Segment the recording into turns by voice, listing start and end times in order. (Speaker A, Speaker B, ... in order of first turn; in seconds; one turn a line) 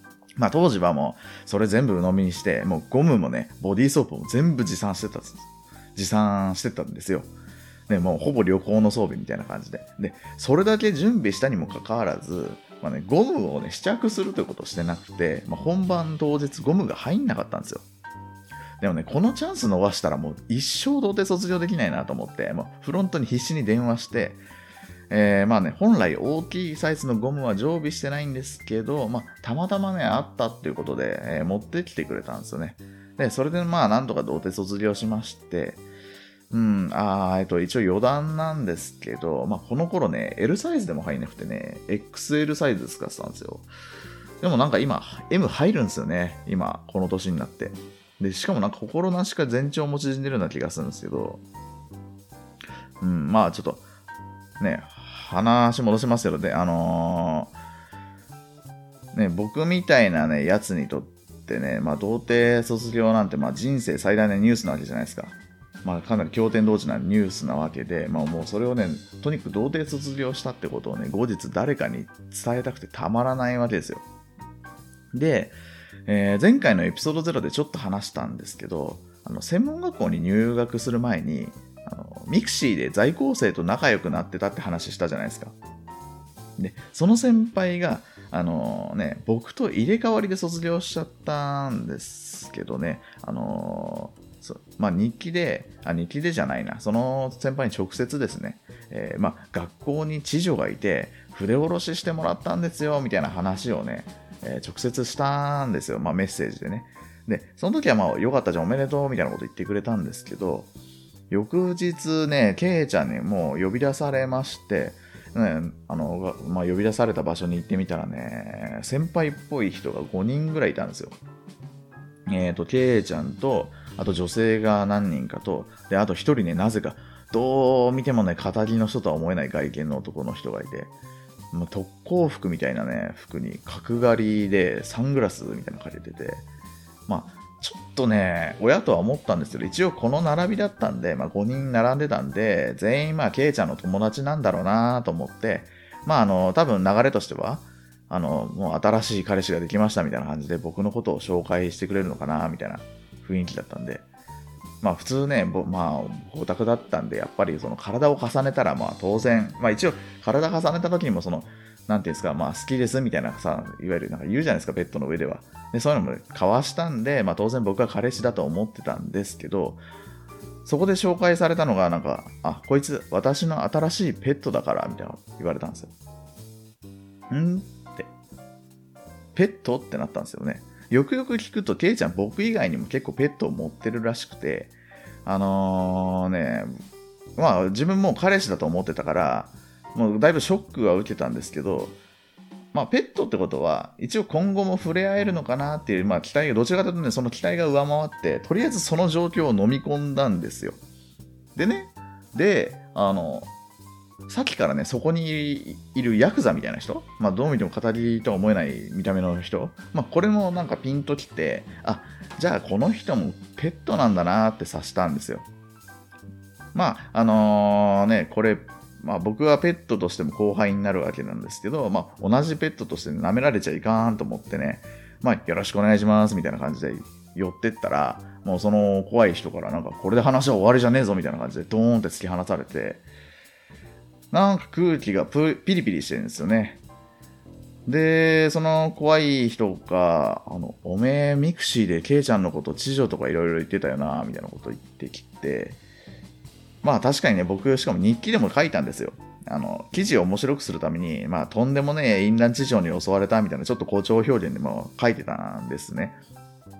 Speaker A: 0.4-7.3
Speaker A: 7.9-17.8
Speaker A: 18.8-24.4
Speaker A: 25.1-35.8
Speaker A: 36.5-43.7
Speaker A: 44.4-51.4
Speaker A: 53.0-53.8
Speaker A: 54.6-57.5
Speaker A: 59.1-74.0
Speaker A: 75.1-75.5
Speaker A: 76.1-85.5
Speaker A: 86.6-110.7
Speaker A: 111.3-121.2
Speaker A: 122.3-130.9
Speaker A: 131.5-136.4
Speaker A: 137.1-154.0
Speaker A: 154.8-169.8
Speaker A: 170.6-175.9
Speaker A: 177.3-178.1
Speaker A: 179.3-184.7
Speaker A: 185.2-186.8
Speaker A: 187.4-191.9
Speaker A: 192.7-200.8
Speaker A: 201.6-203.5
Speaker A: 204.3-215.4
Speaker A: 216.7-233.0
Speaker A: 234.3-236.8
Speaker A: 237.8-245.8
Speaker A: 246.8-256.2